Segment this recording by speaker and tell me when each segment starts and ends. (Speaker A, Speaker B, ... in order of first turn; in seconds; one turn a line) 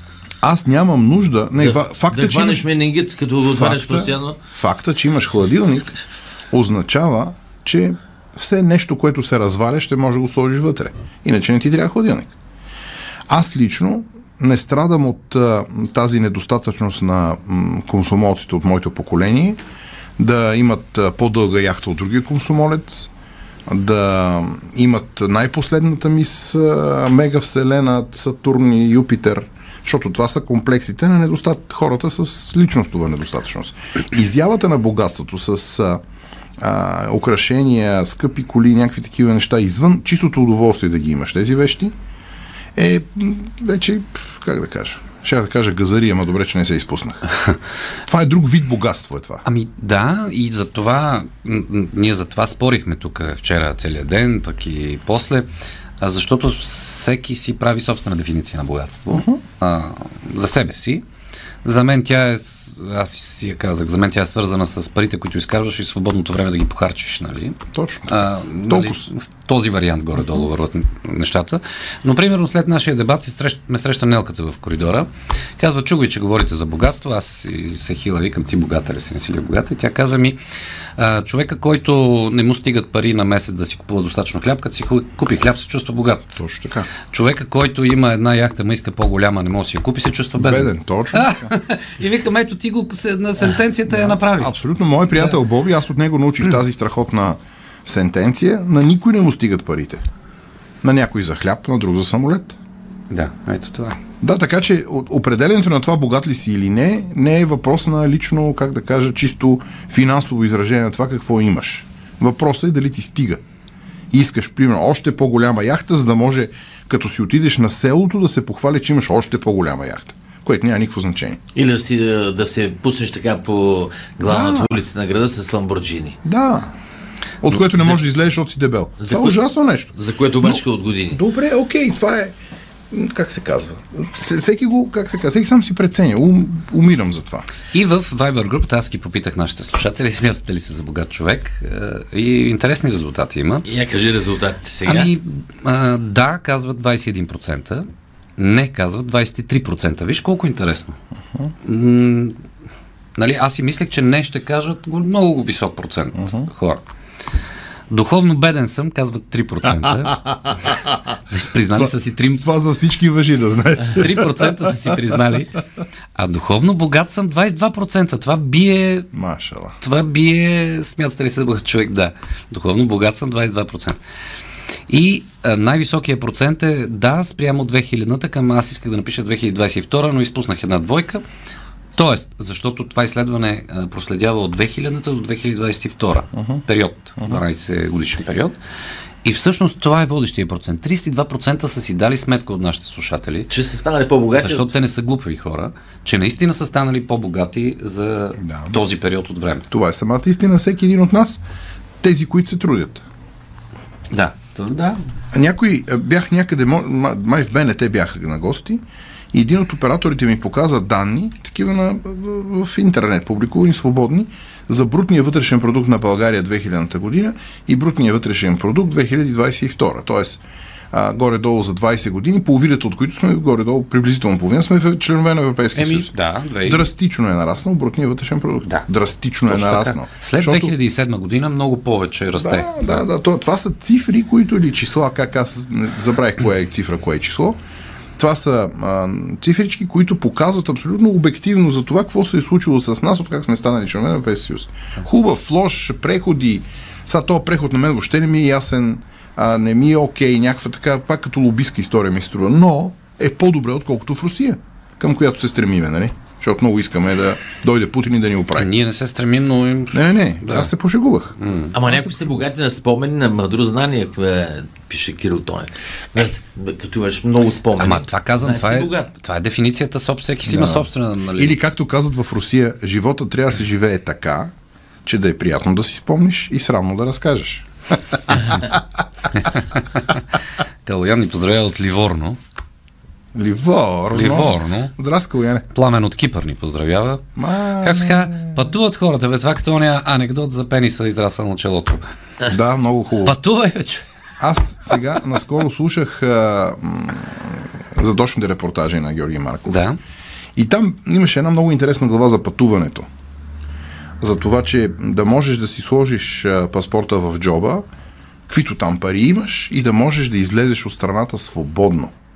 Speaker A: 0.4-2.7
Speaker B: 1.6-4.4
Speaker A: 3.5-5.9
Speaker A: 6.5-12.3
Speaker A: 13.3-19.6
Speaker A: 20.2-23.1
Speaker A: 23.7-36.0
Speaker A: 36.6-41.9
Speaker A: 42.7-47.2
Speaker A: 48.0-49.4
Speaker C: 49.4-55.5
Speaker C: 56.0-61.0
Speaker A: 59.1-59.4
Speaker C: 61.6-80.4
Speaker A: 67.7-69.1
Speaker C: 81.0-86.4
Speaker A: 86.4-86.9
Speaker C: 87.0-94.6
Speaker A: 90.4-91.5
Speaker A: 93.9-100.0
Speaker A: 100.8-102.5
Speaker C: 103.1-104.0
Speaker A: 104.2-113.4
Speaker A: 114.1-121.4
Speaker B: 121.5-126.2
Speaker A: 124.2-124.8
Speaker A: 126.2-126.7
Speaker A: 127.4-132.3
Speaker B: 129.0-129.4
Speaker B: 129.9-131.2
Speaker A: 132.9-137.5
Speaker C: 137.7-143.7
Speaker B: 143.7-145.1
Speaker C: 144.8-147.8
Speaker C: 148.4-150.9
Speaker C: 151.6-152.3
Speaker C: 153.2-156.8
Speaker A: 156.2-156.4
Speaker C: 157.9-160.2
Speaker A: 160.4-160.9
Speaker C: 161.3-162.4
Speaker A: 161.7-164.7
Speaker C: 163.9-165.5
Speaker C: 166.1-169.1
Speaker A: 169.1-169.8
Speaker C: 169.8-174.0
Speaker C: 174.9-181.2
Speaker C: 181.9-188.6
Speaker A: 186.3-186.6
Speaker C: 189.2-193.5
Speaker B: 193.5-194.7
Speaker C: 194.3-199.7
Speaker A: 198.4-198.8
Speaker A: 199.7-201.4
Speaker A: 202.0-203.0
Speaker C: 204.1-205.0
Speaker A: 205.3-230.7
Speaker C: 225.8-226.9
Speaker C: 229.5-233.0
Speaker A: 232.4-237.6
Speaker A: 238.2-258.7
Speaker C: 258.5-260.7
Speaker A: 259.9-261.4
Speaker C: 261.4-262.0
Speaker B: 261.7-269.1
Speaker C: 267.8-271.6
Speaker A: 270.4-274.5
Speaker A: 275.0-278.7
Speaker C: 279.4-280.2
Speaker C: 280.8-282.4
Speaker A: 283.3-285.6
Speaker C: 284.1-284.9
Speaker C: 285.7-287.2
Speaker A: 287.4-288.6
Speaker C: 287.8-292.0
Speaker A: 292.4-293.4
Speaker C: 293.2-294.0
Speaker A: 294.4-299.8
Speaker C: 299.7-300.0
Speaker A: 300.6-303.1
Speaker A: 304.2-307.8
Speaker A: 308.5-312.1